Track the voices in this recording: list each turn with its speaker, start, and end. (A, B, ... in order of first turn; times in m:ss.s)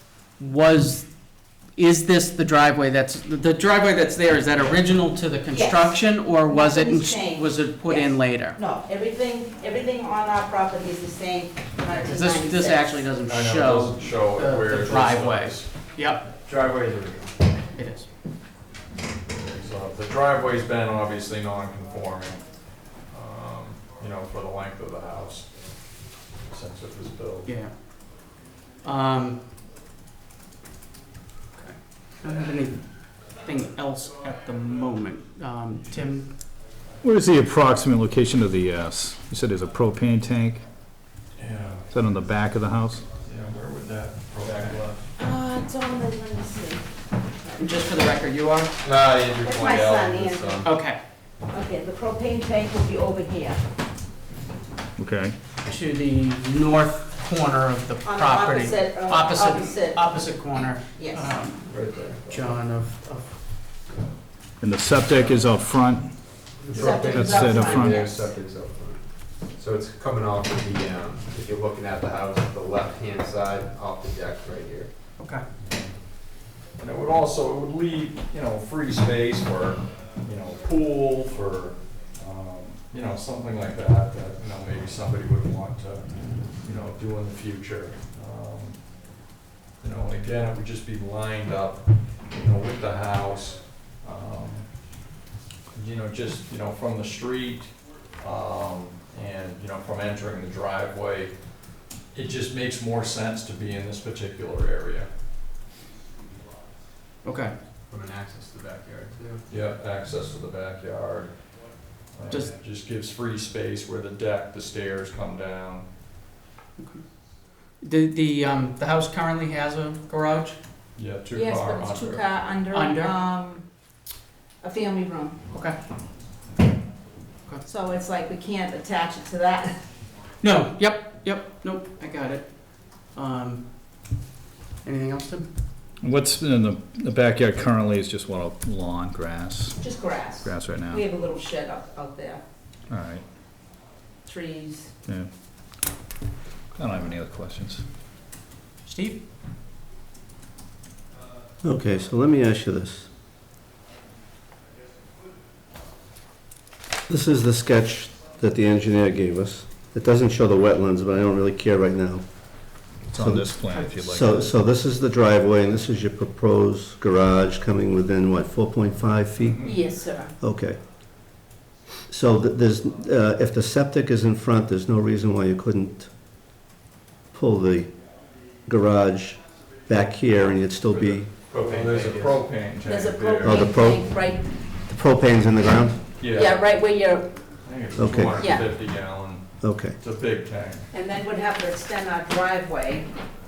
0:00.4-0:01.1 A
0:01.8-0:08.6 A
0:05.5-0:13.0 B
0:11.9-0:16.2 A
0:13.3-0:15.7 C
0:16.2-0:17.6 C
0:17.7-0:18.1 A
0:19.4-0:27.5 C
0:27.4-0:27.8 A
0:28.8-0:29.4 A
0:31.6-0:36.4 A
0:37.0-0:40.6 D
0:41.4-0:41.9 C
0:41.9-0:43.1 D
0:43.2-0:45.0 C
0:44.4-0:45.0 E
0:45.2-0:47.7 B
0:47.6-0:48.8 A
0:48.8-0:50.7 E
0:49.4-0:50.7 B
0:50.6-0:51.0 A
0:51.5-0:53.6 B
0:55.0-0:55.4 D
0:55.6-1:03.4 A
0:58.0-1:00.0 B
1:00.9-1:01.3 B
1:01.7-1:02.6 E
1:04.6-1:06.1 D
1:06.6-1:09.0 E
1:06.7-1:07.2 C
1:06.7-1:08.3 B
1:06.9-1:08.0 D
1:09.5-1:14.9 E
1:15.2-1:15.4 A
1:16.8-1:29.1 C
1:29.8-1:34.7 C
1:35.7-1:45.1 C
1:47.2-1:47.5 A
1:47.9-1:49.5 E
1:49.5-1:51.5 C
1:52.1-1:55.9 C
1:56.8-1:57.0 A
1:57.8-2:00.6 A
2:01.0-2:02.4 C
2:01.3-2:03.6 B
2:02.7-2:03.2 A
2:04.6-2:05.4 B
2:05.5-2:05.8 A
2:07.7-2:09.8 B
2:10.4-2:13.7 A
2:14.8-2:15.5 A
2:16.0-2:19.8 D
2:19.8-2:22.4 B
2:20.4-2:21.1 D
2:22.9-2:23.3 D
2:24.2-2:24.9 B
2:26.8-2:27.8 D
2:28.8-2:29.2 A
2:31.6-2:33.1 F
2:37.1-2:42.2 F
2:43.1-2:44.6 D
2:43.1-2:49.8 F
2:49.4-2:49.7 C
2:49.6-2:50.3 B
2:50.4-2:50.8 F
2:52.1-2:56.1 F
2:57.3-2:57.9 F
2:58.7-3:01.3 F
3:00.9-3:03.7 C
3:01.6-3:02.4 E
3:02.8-3:04.5 B
3:03.4-3:04.2 F
3:04.9-3:06.0 F
3:06.2-3:06.7 C
3:06.3-3:07.4 B
3:07.6-3:09.5 C
3:08.0-3:08.5 F
3:08.3-3:08.7 B
3:09.6-3:10.0 F
3:10.0-3:10.9 C
3:10.9-3:13.1 B